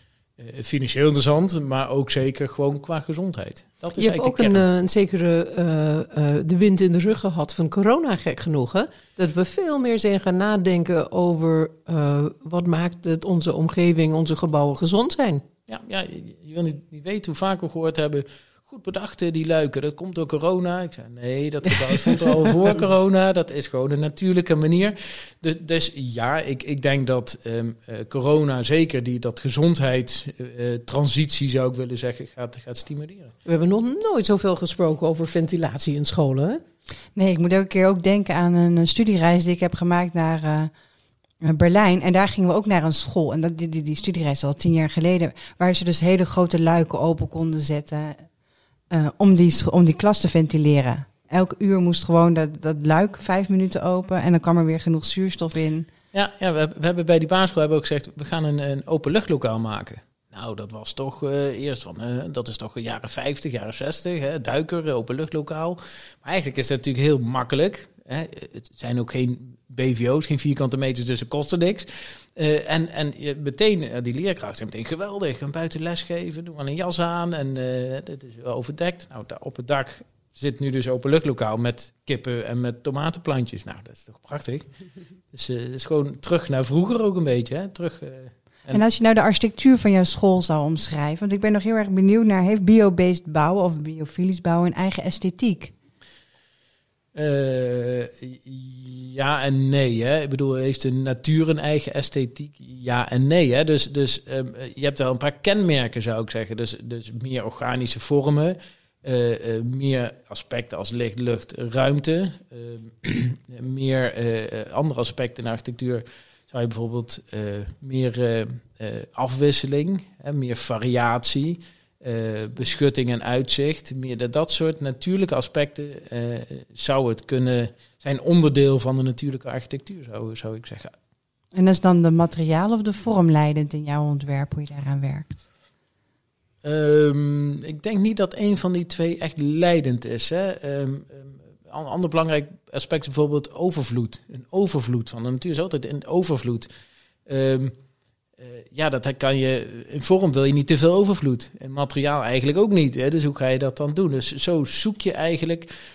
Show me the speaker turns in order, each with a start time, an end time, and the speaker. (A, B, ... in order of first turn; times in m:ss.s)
0:00.4-0:04.6 A
0:04.0-0:15.4 B
0:15.7-0:33.3 A
0:33.5-0:36.6 B
0:37.2-0:40.7 C
0:41.4-0:48.3 C
0:48.9-0:55.9 C
0:56.1-1:24.7 A
1:25.3-1:28.8 A
1:28.7-1:35.7 C
1:37.2-2:10.9 A
2:11.5-2:15.4 C
2:16.6-2:26.7 A
2:27.3-2:27.8 A
2:28.4-2:35.7 A